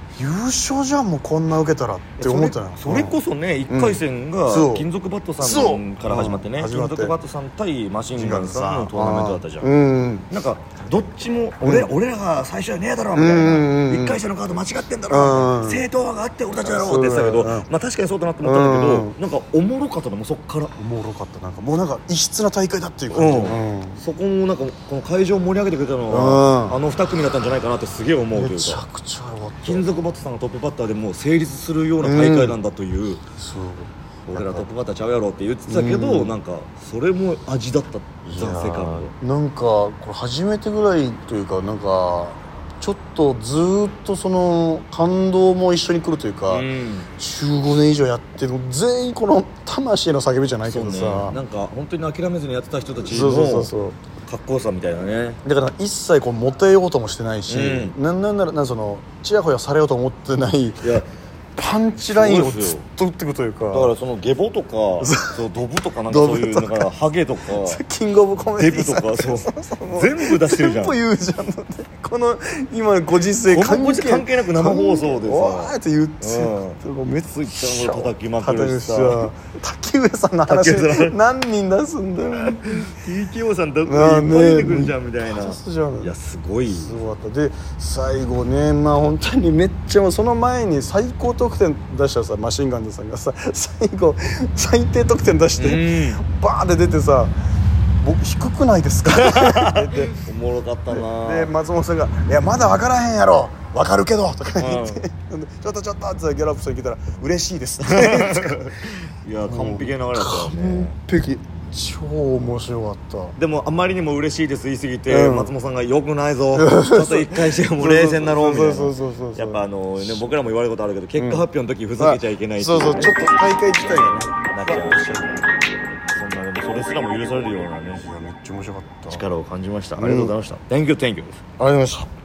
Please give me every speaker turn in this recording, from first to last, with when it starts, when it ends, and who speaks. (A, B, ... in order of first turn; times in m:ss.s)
0:00.2-0:03.2 A
0:02.2-0:09.7 B
0:03.7-0:07.2 A
0:08.2-0:10.3 A
0:10.3-0:20.8 B
0:11.6-0:11.9 A
0:13.1-0:14.2 A
0:15.1-0:15.9 A
0:16.5-0:17.7 A
0:18.4-0:19.2 A
0:20.8-0:24.0 A
0:23.1-0:28.8 B
0:26.1-0:26.8 A
0:28.3-0:30.0 A
0:29.6-0:33.2 B
0:32.0-0:32.6 A
0:33.4-0:34.7 A
0:34.3-0:39.2 B
0:35.7-0:36.4 A
0:38.2-0:51.4 A
0:46.5-0:47.1 B
0:50.6-0:55.4 B
0:53.0-0:54.0 A
0:55.4-1:01.0 A
0:57.5-0:58.0 B
1:00.8-1:01.1 B
1:01.6-1:04.0 A
1:02.1-1:02.9 B
1:03.7-1:07.8 B
1:05.0-1:05.4 A
1:06.1-1:06.9 A
1:07.5-1:23.0 A
1:08.6-1:11.0 B
1:13.5-1:19.3 B
1:20.5-1:21.2 B
1:22.4-1:27.0 B
1:23.8-1:26.2 A
1:26.7-1:37.3 A
1:35.6-1:36.2 B
1:38.0-1:40.1 A
1:39.1-1:41.5 B
1:40.9-1:48.7 A
1:44.6-1:45.1 B
1:47.9-1:51.0 B
1:49.4-1:53.4 A
1:53.4-2:05.4 B
1:55.1-1:55.5 A
1:56.5-2:00.3 A
2:01.2-2:01.5 A
2:02.0-2:05.4 A
2:06.1-2:08.1 B
2:07.9-2:09.2 A
2:09.1-2:11.4 B
2:10.0-2:10.4 A
2:11.6-2:12.1 A